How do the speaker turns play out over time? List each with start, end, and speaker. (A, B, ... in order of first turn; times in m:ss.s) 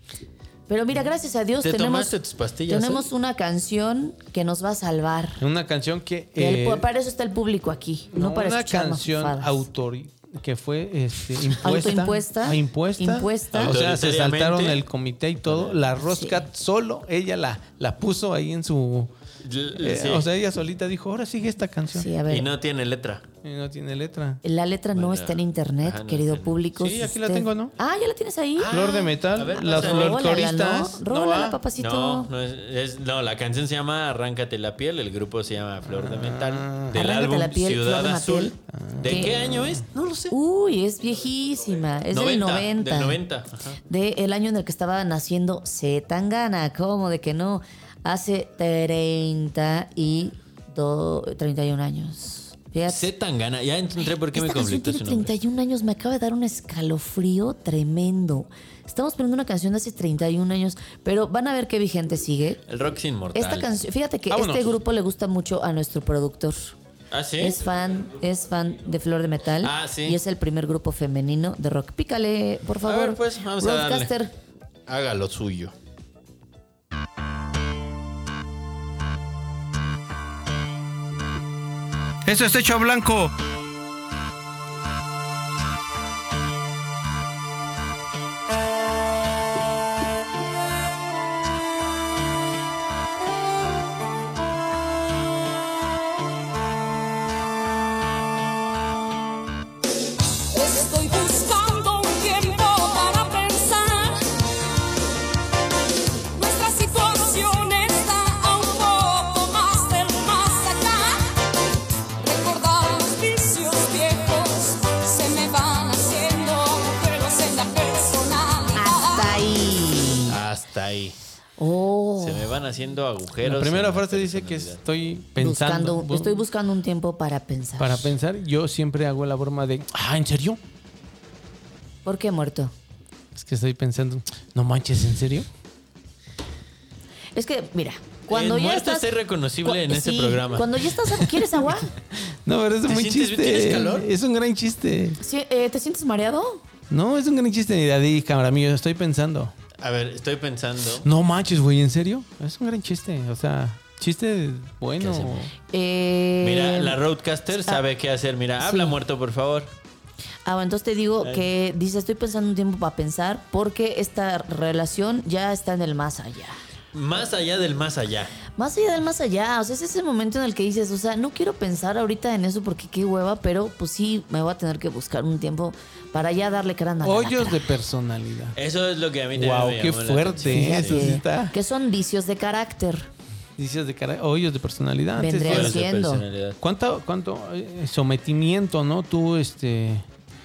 0:00.7-0:05.4 A
0:01.6-0:03.0 B
0:05.4-0:06.8 C
0:06.4-0:09.7 A
0:08.1-0:19.0 C
0:11.5-0:13.8 A
0:13.5-0:14.8 B
0:15.4-0:15.8 B
0:16.0-0:16.5 A
0:19.4-0:20.3 B
0:19.8-0:22.1 C
0:21.9-0:22.5 A
0:22.2-0:23.2 B
0:23.4-0:24.4 C
0:24.4-0:32.3 A
0:24.9-0:26.6 B
0:26.8-0:27.7 C
0:28.6-0:30.5 B
0:28.7-0:31.6 C
0:31.7-0:40.3 B
0:36.6-0:36.9 C
0:36.9-0:39.5 A
0:38.9-0:39.2 D
0:40.3-0:43.2 A
0:42.1-0:43.8 B
0:43.8-0:53.1 A
0:52.9-0:55.3 B
0:54.3-1:02.6 A
1:02.7-1:03.7 B
1:03.3-1:06.7 A
1:04.3-1:04.8 D
1:07.1-1:07.6 B
1:07.4-1:14.3 A
1:09.6-1:10.2 B
1:12.8-1:14.1 B
1:14.9-1:15.7 B
1:22.2-1:23.3 D
1:40.5-1:44.2 E
1:46.3-1:51.4 E
1:52.2-1:59.3 E
1:58.7-2:00.4 A
2:00.2-2:01.2 B
2:01.6-2:02.6 A
2:02.2-2:04.8 B
2:03.6-2:06.3 C
2:05.3-2:08.1 A
2:07.8-2:10.6 C
2:12.0-2:12.7 A
2:13.4-2:15.4 C
2:17.3-2:19.1 A
2:18.3-2:21.4 B
2:19.6-2:21.9 A
2:22.4-2:25.2 C
2:22.8-2:24.1 B
2:25.2-2:26.6 A
2:26.9-2:29.5 C
2:27.7-2:28.1 D
2:29.8-2:31.1 B
2:31.0-2:35.5 C
2:32.9-2:33.9 D
2:35.0-2:35.4 B
2:35.7-2:37.0 A
2:36.4-2:39.7 B
2:38.6-2:38.9 A
2:40.4-2:46.6 A
2:41.2-2:41.5 B
2:46.9-2:48.4 B
2:48.6-2:57.7 A
2:57.0-2:58.5 C
2:58.5-3:01.1 B
2:59.4-3:01.5 C
3:00.4-3:03.1 A
3:03.6-3:05.7 C
3:05.1-3:06.2 A
3:05.4-3:06.6 B
3:06.6-3:10.0 C